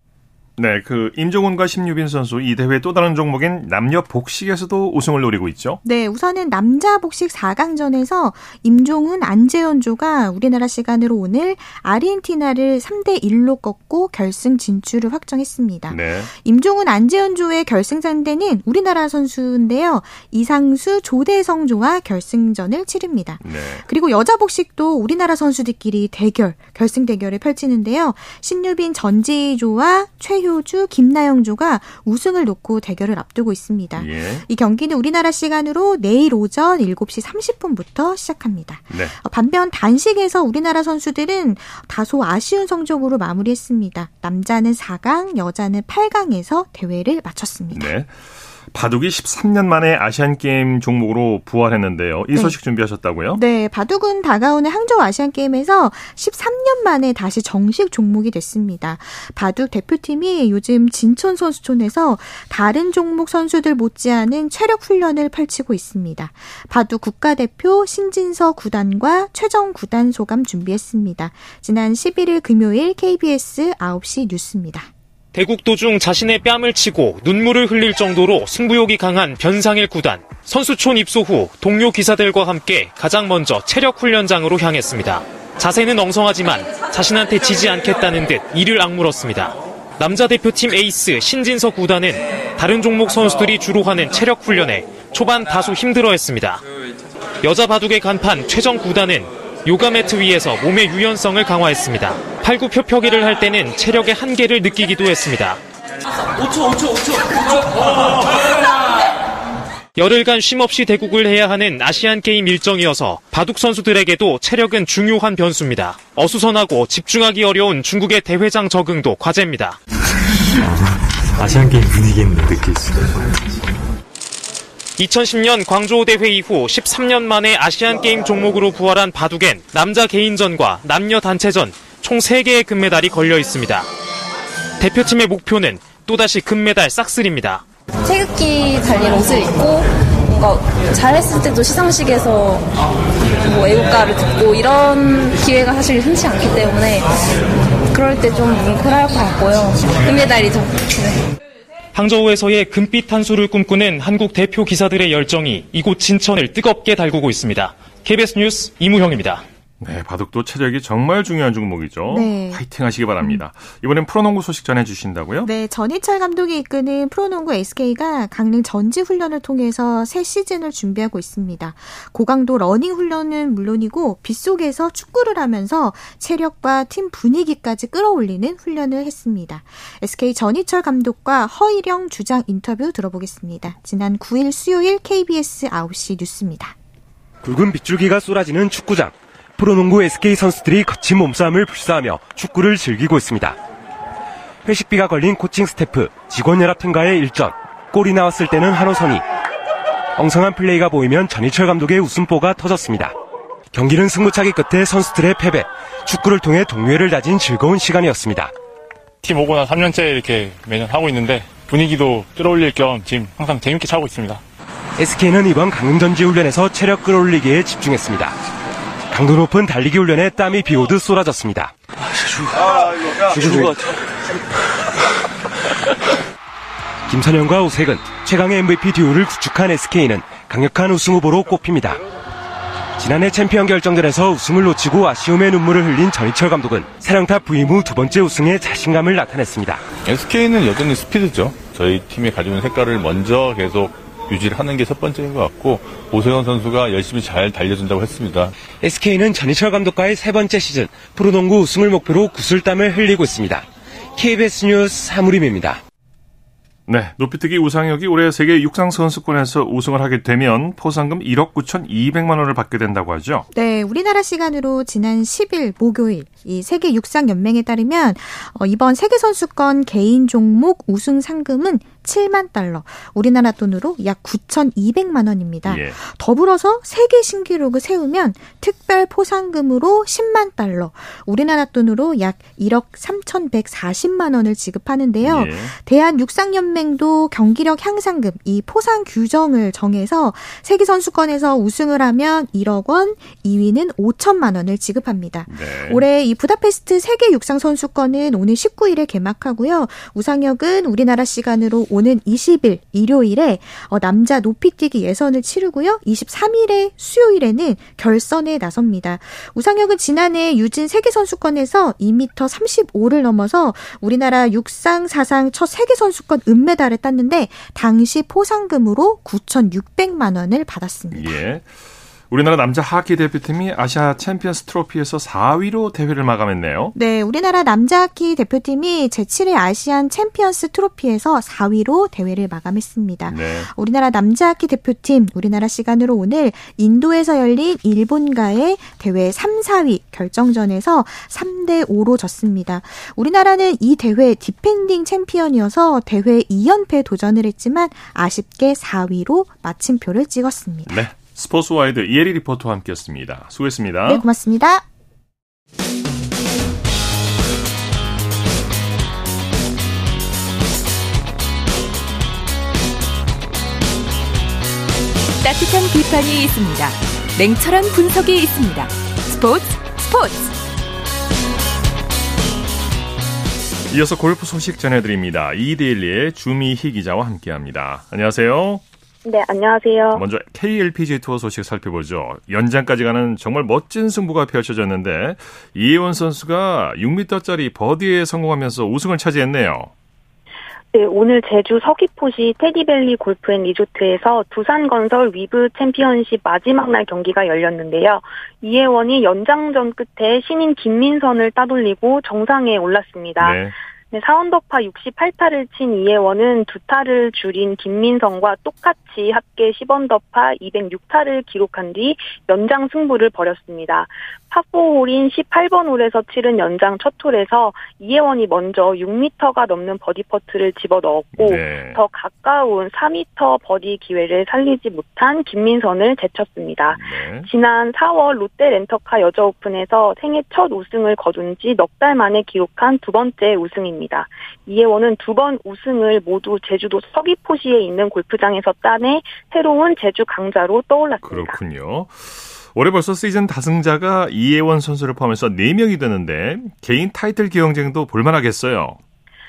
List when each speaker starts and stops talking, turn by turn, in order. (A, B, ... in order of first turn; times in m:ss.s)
0:00.6-0:05.8 A
0:05.8-0:47.9 B
0:15.9-0:16.3 A
0:23.4-0:23.8 A
0:34.0-0:34.4 A
0:47.7-0:48.1 A
0:48.7-0:53.4 A
0:52.3-0:52.6 B
0:53.3-1:14.9 B
1:15.3-1:36.6 C
1:37.4-1:45.6 C
1:50.0-1:59.8 C
2:00.6-2:03.7 D
2:05.0-2:13.9 C
2:14.8-2:17.6 C
2:18.0-2:22.7 E
2:23.4-2:27.2 E
2:27.9-2:31.2 E
2:31.9-2:39.4 C
2:39.8-2:45.5 A
2:42.1-2:42.6 B
2:45.4-3:06.8 B
3:07.4-3:13.6 F
3:14.6-3:19.2 F
3:20.2-3:23.1 F
3:23.7-3:28.5 F
3:29.2-3:34.4 G
3:35.0-3:38.4 F
3:39.1-3:41.7 F
3:43.3-3:43.8 F
3:47.1-3:52.0 F
3:53.0-3:59.8 F
4:00.0-4:08.5 H
4:08.8-4:15.8 F
4:16.9-4:23.4 A
4:23.5-5:21.4 B
4:35.6-4:36.0 A
4:45.2-4:45.7 A
4:55.5-4:56.0 A
5:21.1-5:21.7 A
5:22.3-5:26.9 A
5:26.9-5:51.0 B
5:33.3-5:33.7 A
5:50.9-5:54.2 A
5:54.0-5:54.8 B
6:05.4-6:10.5 I
6:13.9-6:18.8 A
6:19.2-6:20.2 J
6:20.1-6:29.9 A
6:30.9-7:21.6 J
6:43.4-6:43.7 A
7:01.4-7:02.0 A
7:06.9-7:07.5 A
7:21.2-7:29.0 A